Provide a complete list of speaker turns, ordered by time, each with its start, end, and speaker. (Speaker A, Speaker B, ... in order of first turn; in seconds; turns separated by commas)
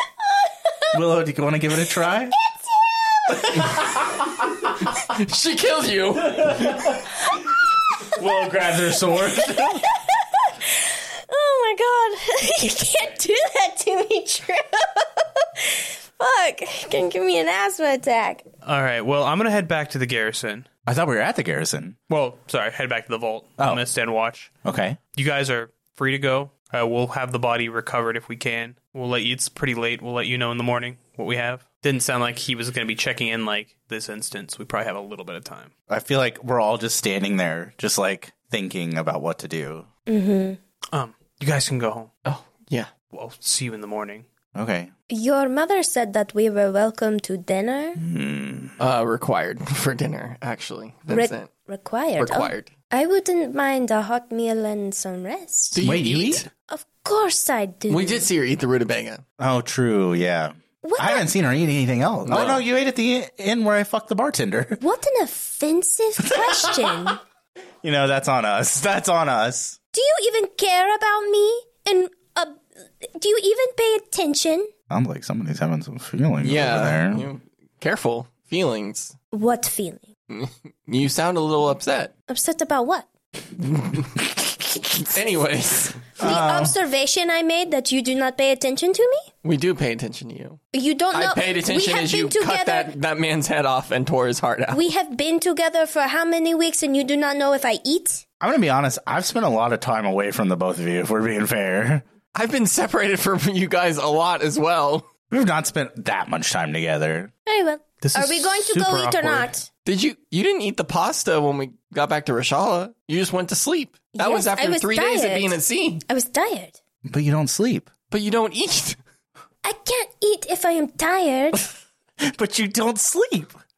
Speaker A: 0.9-2.3, Speaker B: 2.5-3.8, Speaker A: 3.3-4.4, Speaker C: 5.0-7.0, Speaker A: 6.3-7.0, Speaker A: 8.1-9.8, Speaker B: 9.8-18.4, Speaker D: 18.6-20.6, Speaker A: 20.9-22.0, Speaker D: 22.1-24.5, Speaker A: 24.6-25.0, Speaker D: 25.1-35.7, Speaker A: 35.9-39.9, Speaker B: 40.1-40.6, Speaker D: 40.9-42.1, Speaker C: 42.2-42.9, Speaker D: 43.1-44.2, Speaker A: 44.5-44.9, Speaker B: 45.1-48.0, Speaker A: 48.0-48.8, Speaker C: 48.8-51.5, Speaker B: 51.1-55.8, Speaker C: 52.2-52.7, Speaker C: 55.7-56.5, Speaker A: 55.8-56.4, Speaker B: 56.7-58.3, Speaker C: 57.9-59.2, Speaker A: 59.4-64.8, Speaker B: 60.8-61.2, Speaker C: 62.2-62.6, Speaker B: 64.8-67.2, Speaker A: 66.3-67.1, Speaker A: 67.8-69.8, Speaker B: 69.9-74.7, Speaker A: 74.9-77.3, Speaker C: 76.4-79.2, Speaker B: 79.3-80.1, Speaker C: 80.3-82.1, Speaker B: 82.3-83.1, Speaker C: 83.6-84.3, Speaker C: 85.0-86.1, Speaker A: 86.2-86.7, Speaker B: 86.2-89.3, Speaker C: 89.4-90.6, Speaker B: 90.7-92.9, Speaker C: 91.1-94.8, Speaker B: 94.7-98.2, Speaker A: 98.4-102.0, Speaker C: 102.3-105.1, Speaker A: 105.3-107.3, Speaker B: 107.5-109.7, Speaker D: 108.0-109.5, Speaker C: 109.8-116.0, Speaker B: 114.2-116.8, Speaker A: 117.1-117.9, Speaker C: 118.1-119.0, Speaker B: 119.6-121.7, Speaker A: 122.2-123.5